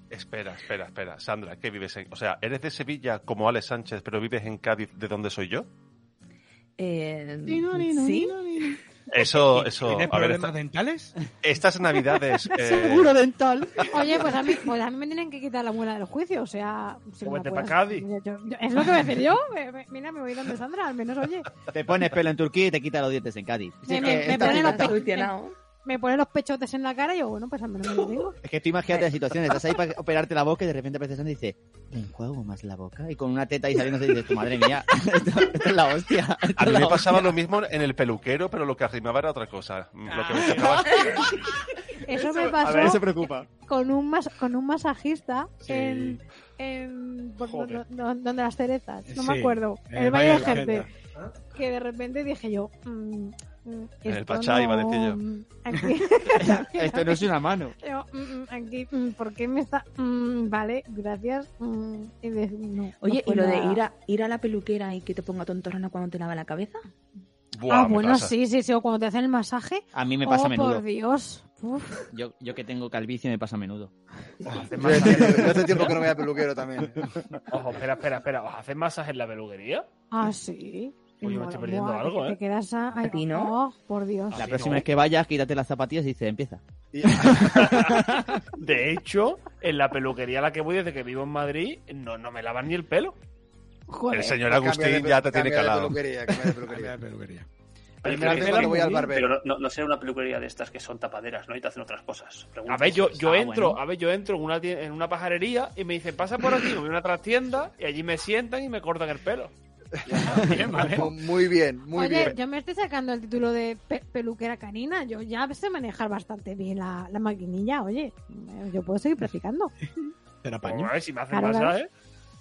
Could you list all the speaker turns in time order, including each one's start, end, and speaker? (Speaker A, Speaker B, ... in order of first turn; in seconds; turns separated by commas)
Speaker A: 0.1-5.7, Speaker B: 6.8-8.8, Speaker C: 7.5-8.7, Speaker A: 9.1-10.5, Speaker D: 9.6-11.1, Speaker A: 11.4-13.2, Speaker C: 12.5-14.2, Speaker E: 13.9-21.5, Speaker F: 17.2-18.1, Speaker C: 21.7-25.0, Speaker E: 23.9-25.3, Speaker B: 23.9-25.6, Speaker E: 25.9-28.4, Speaker C: 28.4-37.3, Speaker A: 36.6-41.4, Speaker D: 40.1-40.8, Speaker E: 42.1-50.9, Speaker C: 42.6-43.5, Speaker D: 45.8-46.2, Speaker F: 47.5-47.8, Speaker D: 49.1-50.9, Speaker E: 51.5-57.3, Speaker A: 54.1-55.2, Speaker C: 56.4-57.7, Speaker E: 57.8-63.8, Speaker B: 63.0-66.8, Speaker A: 67.5-68.3, Speaker E: 67.7-72.0, Speaker C: 69.9-70.8, Speaker C: 72.1-73.9, Speaker F: 74.5-75.9, Speaker G: 74.8-77.0, Speaker F: 77.5-79.9, Speaker E: 80.1-84.5, Speaker F: 81.2-82.4, Speaker B: 83.0-83.6, Speaker F: 84.3-84.9, Speaker C: 84.3-86.6, Speaker G: 86.9-87.2, Speaker C: 87.2-88.0, Speaker F: 87.6-88.0, Speaker F: 88.6-93.2, Speaker E: 93.9-94.4, Speaker A: 94.1-96.0, Speaker G: 94.4-96.9, Speaker D: 96.6-97.5, Speaker F: 98.0-98.9, Speaker G: 98.0-99.3, Speaker H: 98.1-103.5, Speaker F: 102.7-109.5, Speaker C: 103.3-103.8, Speaker D: 110.3-111.1, Speaker G: 110.8-112.4, Speaker E: 111.9-119.7, Speaker D: 120.4-120.9, Speaker F: 120.6-121.9, Speaker E: 121.3-121.8